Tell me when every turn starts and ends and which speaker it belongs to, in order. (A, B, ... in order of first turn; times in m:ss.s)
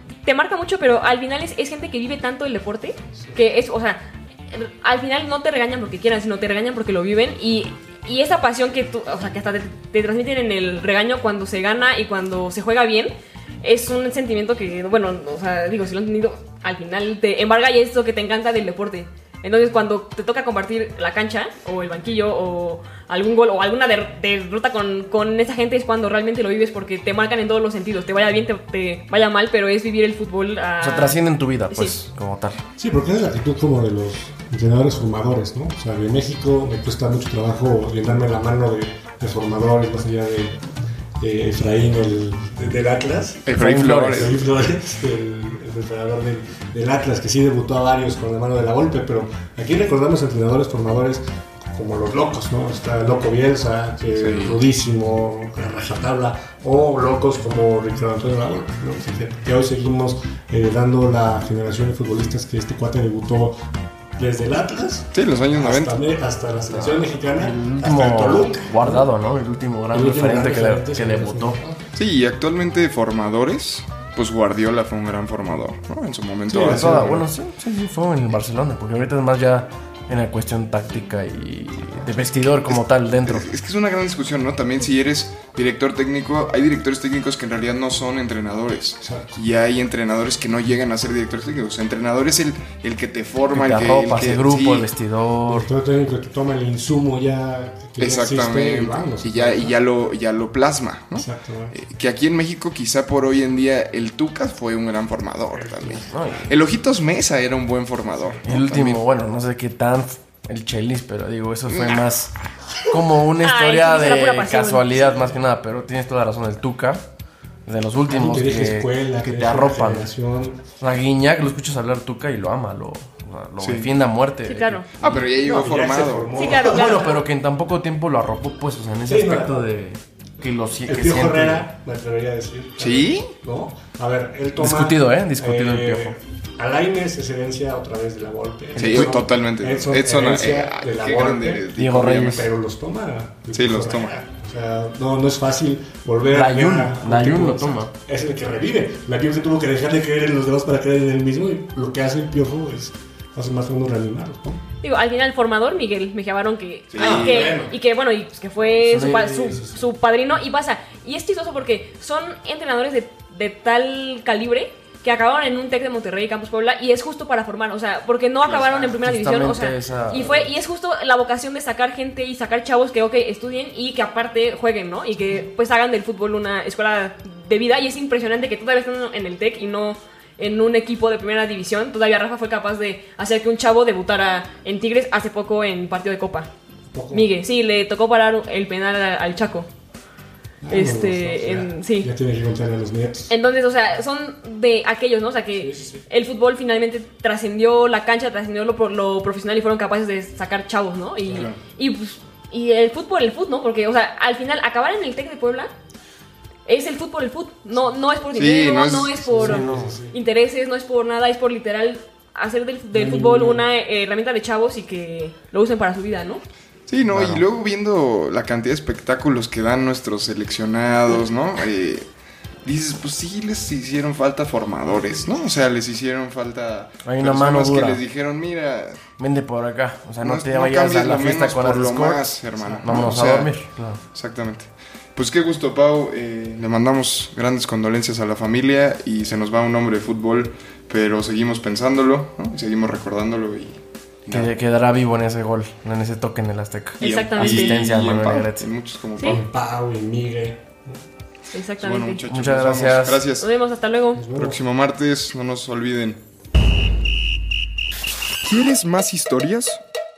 0:00.2-0:32.0 A
0:30.8-0:32.6 B
0:32.8-0:40.6 C
0:41.2-1:03.6 C
0:43.5-0:44.4 D
0:43.6-0:44.4 B
0:54.2-0:54.6 D
1:04.2-1:09.1 C
1:05.1-1:06.0 D
1:06.7-1:11.6 B
1:09.9-1:11.8 C
1:12.0-1:17.2 D
1:16.5-1:17.2 C
1:16.7-1:23.5 B
1:22.7-1:34.9 D
1:29.0-1:29.4 C
1:33.5-1:35.7 B
1:35.5-1:39.8 C
1:38.0-1:49.0 D
1:41.2-1:41.8 C
1:45.5-1:46.3 C
1:46.1-1:46.5 B
1:48.4-1:52.3 B
1:51.7-1:52.0 D
1:52.9-1:57.0 B
1:53.4-1:55.0 A
1:57.7-2:00.1 B
1:58.1-2:00.6 C
2:00.8-2:04.8 B
2:03.6-2:03.9 D
2:04.5-2:05.6 A
2:05.0-2:06.4 D
2:05.0-2:07.0 C
2:06.3-2:07.2 A
2:06.7-2:11.7 B
2:09.0-2:09.6 C
2:10.8-2:34.6 C
2:12.8-2:13.3 D
2:14.6-2:16.2 B
2:18.8-2:19.2 B
2:18.8-2:22.5 D
2:21.8-2:22.5 B
2:23.5-2:24.2 D
2:26.3-2:27.9 B
2:34.8-3:06.5 A
2:36.9-2:37.6 D
2:37.0-2:37.8 C
2:38.9-2:39.6 B
2:39.5-2:39.7 C
2:48.5-2:48.9 D
2:49.0-2:50.4 B
3:06.9-3:07.3 C
3:07.1-3:09.7 A
3:10.6-3:13.3 C
3:10.7-3:12.1 A
3:13.3-3:25.7 A
3:15.5-3:16.0 C
3:21.3-3:21.6 D
3:26.7-3:36.4 A
3:28.4-3:29.4 D
3:29.2-3:30.2 C
3:29.4-3:30.0 B
3:32.9-3:33.7 C
3:36.9-3:42.1 D
3:37.1-3:37.4 B
3:42.6-3:49.0 D
3:47.0-3:48.0 B
3:49.2-3:54.0 B
3:50.2-4:04.5 D
3:52.6-3:53.3 C
4:04.3-4:08.7 B
4:07.0-4:07.9 A
4:07.0-4:09.4 D
4:09.2-4:11.0 C
4:11.5-4:12.2 A
4:11.8-4:13.5 D
4:12.3-4:13.3 B
4:13.4-4:14.2 A
4:14.2-4:14.6 C
4:14.3-4:16.2 D
4:18.4-4:19.8 D